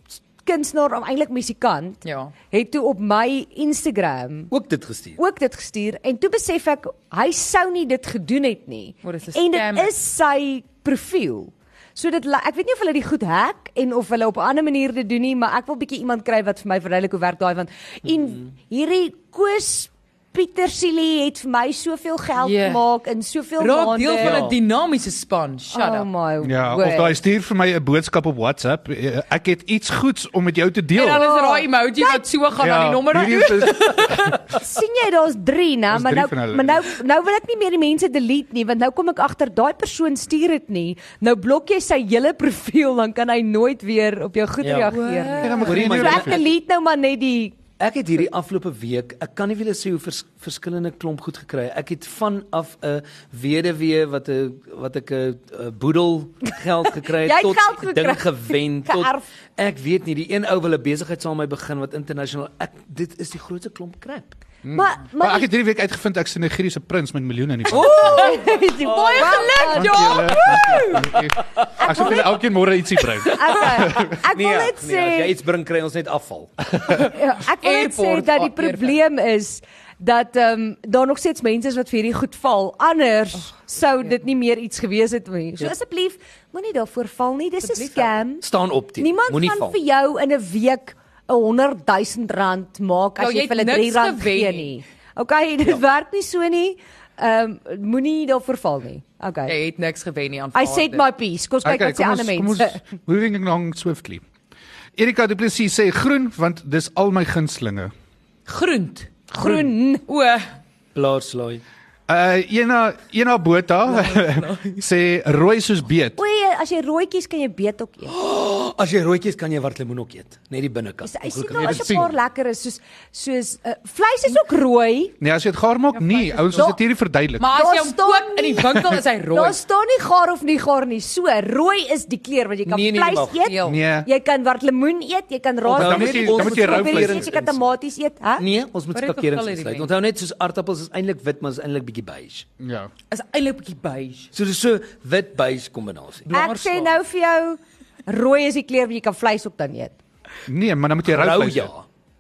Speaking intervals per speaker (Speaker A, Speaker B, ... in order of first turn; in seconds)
Speaker A: 0.2-2.0, 2.5-4.5, 5.2-24.5, 25.7-27.2, 31.2-32.2, 34.5-47.6, 57.1-59.3, 64.7-65.5, 67.9-71.0, 71.8-72.5, 73.3-75.3, 76.9-99.5, 100.5-102.8, 109.3-110.0, 116.2-118.2, 121.0-125.2, 127.5-138.5, 146.3-149.9
Speaker B: 2.0-2.3, 9.0-9.9, 22.4-22.8, 23.6-26.1, 30.9-34.5, 44.9-45.8, 67.8-71.2, 77.4-79.0, 87.6-88.2, 93.2-94.7, 99.5-101.0, 108.5-109.3, 110.1-110.5, 113.9-114.7, 126.0-126.8, 127.4-129.6, 133.4-133.8, 138.9-139.9, 143.1-144.3, 146.3-146.9
Speaker C: 4.5-5.2, 24.2-24.6, 44.6-45.0, 45.6-46.5, 47.8-64.4, 67.7-69.7, 71.3-72.0, 73.3-76.7, 88.4-89.8, 109.4-109.7, 110.9-111.6, 118.1-122.2, 132.7-133.5, 135.7-137.7, 138.4-142.5, 144.3-146.3, 151.1-151.8
Speaker D: 26.4-31.3, 32.6-34.5, 35.9-36.9, 45.4-46.5, 64.6-68.3, 69.7-74.2, 101.6-104.2, 105.0-107.9, 112.1-116.2, 121.5-122.1, 125.2-127.5, 133.6-134.1, 135.7-137.3, 142.6-142.9, 150.5-151.7